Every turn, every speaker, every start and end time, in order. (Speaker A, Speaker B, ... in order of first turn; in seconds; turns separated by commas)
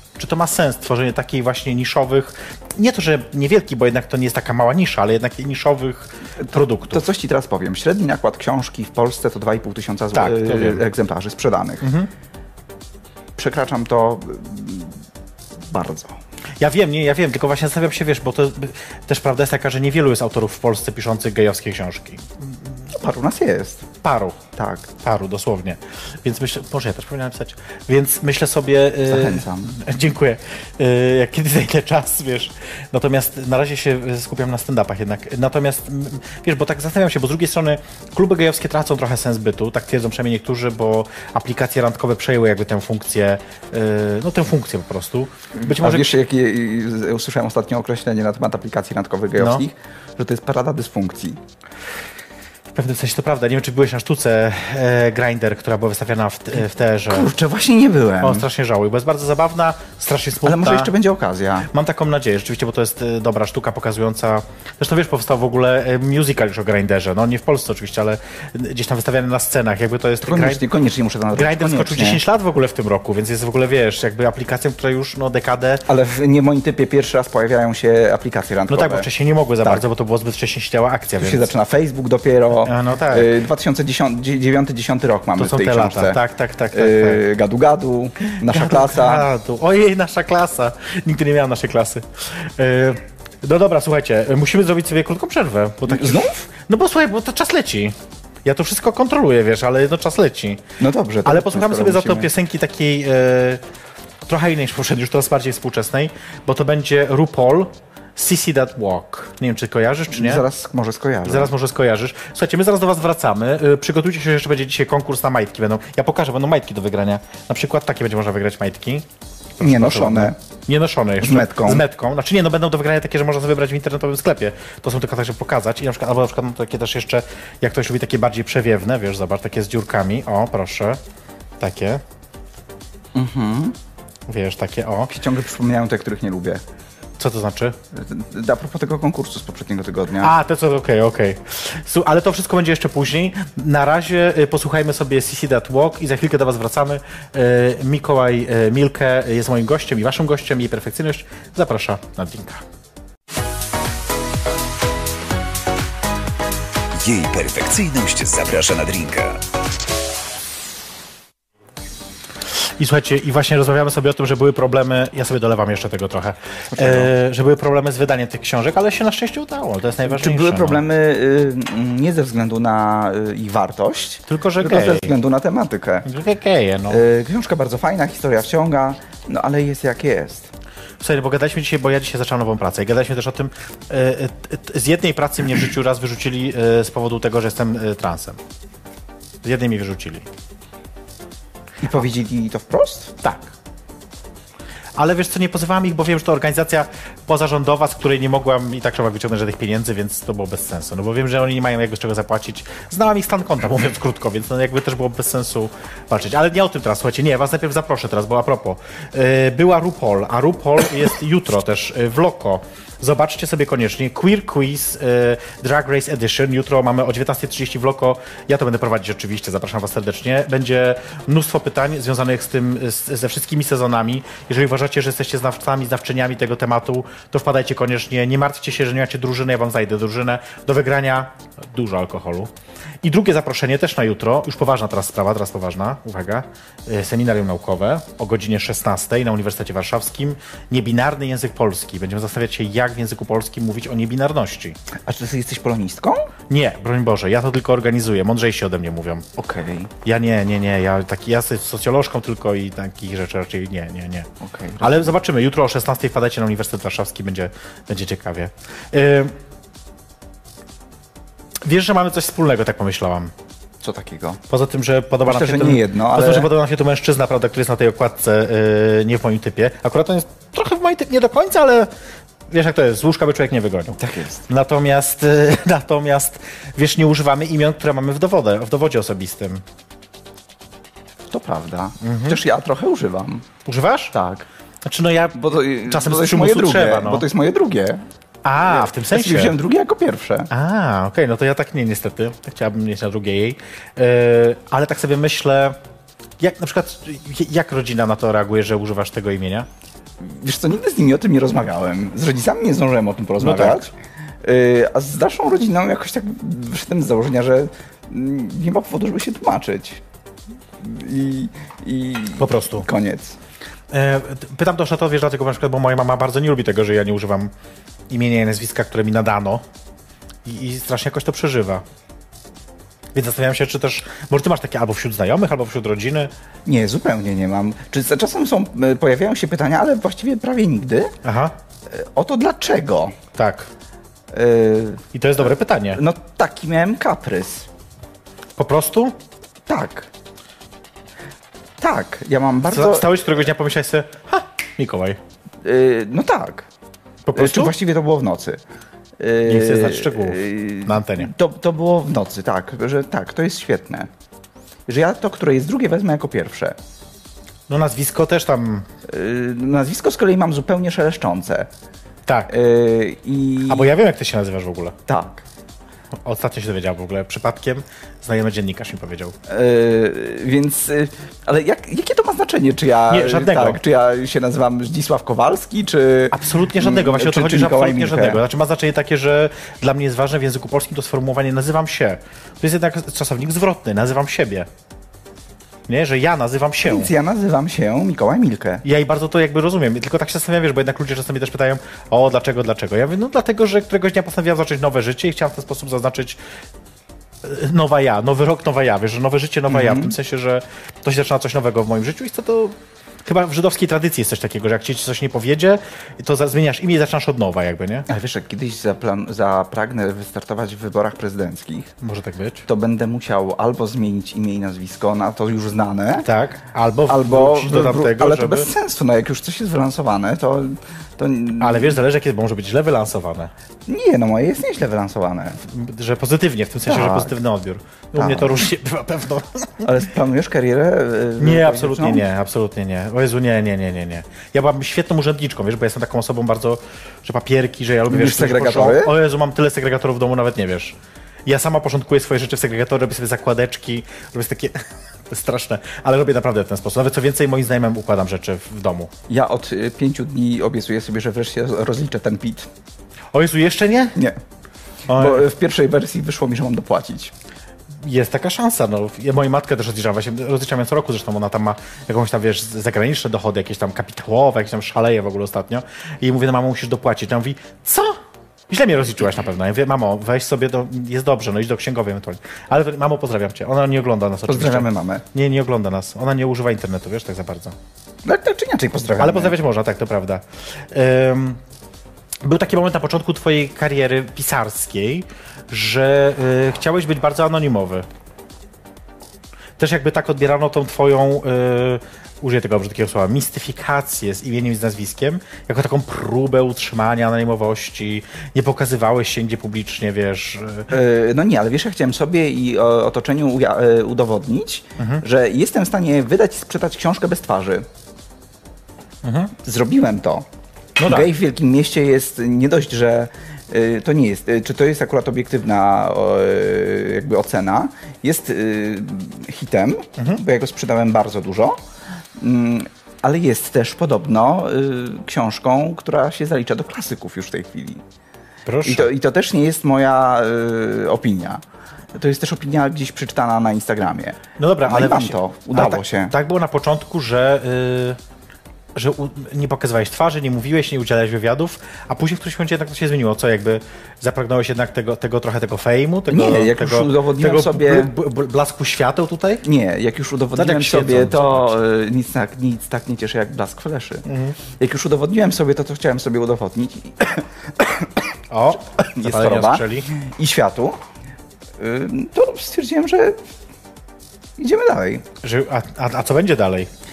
Speaker A: 0.1-7.0, Speaker B: 6.4-11.9, Speaker A: 10.1-10.8, Speaker A: 11.8-12.1, Speaker B: 13.4-14.9, Speaker B: 15.7-16.2, Speaker A: 16.6-22.6, Speaker B: 22.9-23.9, Speaker A: 24.0-24.4, Speaker B: 24.6-24.9, Speaker A: 25.0-46.1, Speaker B: 29.1-29.8, Speaker B: 45.5-51.4, Speaker A: 49.4-49.6, Speaker A: 52.7-57.3, Speaker B: 57.1-58.5, Speaker A: 58.2-60.9, Speaker B: 60.4-61.7, Speaker A: 61.7-70.6, Speaker B: 70.2-72.2, Speaker A: 71.3-75.8, Speaker B: 75.8-79.1, Speaker A: 78.7-81.5, Speaker B: 81.2-86.2, Speaker A: 82.6-83.3, Speaker A: 85.4-87.2, Speaker B: 86.7-89.3, Speaker A: 88.4-100.6, Speaker B: 95.8-96.4, Speaker B: 100.8-102.3, Speaker A: 101.2-103.6, Speaker A: 104.2-110.4, Speaker B: 110.1-111.5, Speaker A: 111.2-119.1, Speaker A: 119.6-131.0, Speaker B: 119.6-120.4, Speaker B: 121.2-121.8, Speaker A: 131.6-132.0, Speaker B: 133.1-133.8, Speaker A: 134.3-135.1, Speaker B: 135.1-136.6, Speaker A: 137.2-137.8, Speaker B: 137.9-140.3, Speaker A: 140.2-152.6, Speaker C: 156.9-159.4, Speaker A: 162.7-170.8, Speaker B: 166.7-167.1, Speaker B: 170.1-176.1, Speaker A: 174.3-175.1, Speaker A: 176.1-177.0, Speaker B: 176.9-180.5, Speaker A: 181.0-188.4, Speaker A: 189.4-190.3, Speaker B: 191.8-193.1, Speaker A: 193.2-193.5, Speaker A: 194.9-232.5, Speaker A: 233.0-244.8, Speaker B: 245.1-246.3, Speaker A: 246.5-249.2, Speaker B: 249.4-249.9, Speaker A: 250.0-259.3, Speaker B: 254.4-255.1, Speaker A: 261.6-263.3, Speaker B: 263.8-264.4, Speaker A: 264.5-271.9, Speaker B: 265.2-266.5, Speaker A: 272.5-279.6, Speaker B: 273.9-274.4, Speaker B: 281.3-283.4, Speaker A: 282.0-282.4, Speaker A: 283.6-284.1, Speaker B: 284.1-284.4, Speaker A: 284.8-287.2, Speaker B: 285.3-288.0, Speaker A: 288.4-289.5, Speaker B: 288.6-290.5, Speaker A: 290.5-295.8, Speaker A: 296.4-299.7, Speaker B: 300.2-303.9, Speaker A: 303.4-303.9, Speaker B: 304.4-310.0, Speaker B: 310.8-313.4, Speaker A: 312.4-312.9, Speaker A: 313.9-317.5, Speaker A: 318.1-319.6, Speaker A: 320.4-321.8, Speaker A: 323.1-326.3, Speaker B: 326.6-331.1, Speaker A: 331.2-331.5, Speaker B: 331.9-333.1, Speaker A: 333.3-333.7, Speaker B: 334.3-335.0, Speaker A: 335.1-336.0, Speaker B: 335.9-337.7, Speaker A: 338.6-339.1, Speaker B: 339.7-340.1, Speaker B: 341.8-343.1, Speaker A: 342.7-345.2, Speaker B: 345.6-346.7, Speaker A: 347.2-347.7, Speaker B: 347.3-348.6, Speaker B: 349.2-354.1, Speaker A: 349.4-351.3, Speaker B: 354.9-356.8, Speaker A: 357.7-358.9, Speaker B: 359.1-361.7, Speaker A: 362.2-362.5, Speaker B: 362.5-363.9, Speaker A: 363.7-364.9, Speaker B: 365.1-365.4, Speaker A: 366.2-369.3, Speaker B: 369.5-378.4, Speaker A: 373.1-373.8, Speaker A: 376.3-384.7, Speaker A: 385.9-387.1, Speaker B: 386.8-388.8, Speaker A: 388.8-396.4, Speaker A: 397.4-408.1, Speaker B: 399.7-400.1, Speaker B: 408.1-411.9, Speaker A: 412.0-412.6, Speaker B: 412.6-416.3, Speaker A: 416.2-418.7, Speaker B: 417.1-422.0, Speaker A: 421.6-423.5, Speaker B: 423.9-425.6, Speaker A: 425.6-429.9, Speaker B: 426.9-427.4, Speaker B: 428.1-428.6, Speaker B: 429.8-432.2, Speaker A: 431.4-444.8, Speaker B: 438.1-439.1, Speaker A: 445.3-449.1, Speaker B: 449.3-452.7, Speaker A: 453.3-454.2, Speaker A: 455.1-455.4, Speaker B: 455.1-457.3, Speaker A: 458.0-468.2, Speaker A: 468.7-477.8, Speaker B: 474.5-475.2, Speaker B: 478.2-479.5, Speaker A: 479.2-481.6, Speaker A: 482.4-488.1, Speaker A: 489.8-500.9, Speaker B: 500.9-507.9, Speaker A: 509.2-509.5, Speaker B: 509.6-510.4, Speaker A: 511.0-511.3, Speaker B: 511.0-521.8, Speaker B: 522.4-528.0, Speaker A: 528.6-529.1, Speaker B: 528.8-531.6, Speaker B: 532.1-536.3, Speaker A: 534.6-538.2, Speaker A: 538.9-549.6, Speaker B: 546.3-548.1, Speaker B: 549.6-554.2, Speaker A: 550.5-551.7, Speaker A: 554.3-554.6, Speaker B: 554.8-558.1, Speaker A: 558.5-560.1, Speaker B: 559.1-561.0, Speaker B: 561.8-563.4, Speaker B: 564.6-565.2, Speaker A: 565.4-566.9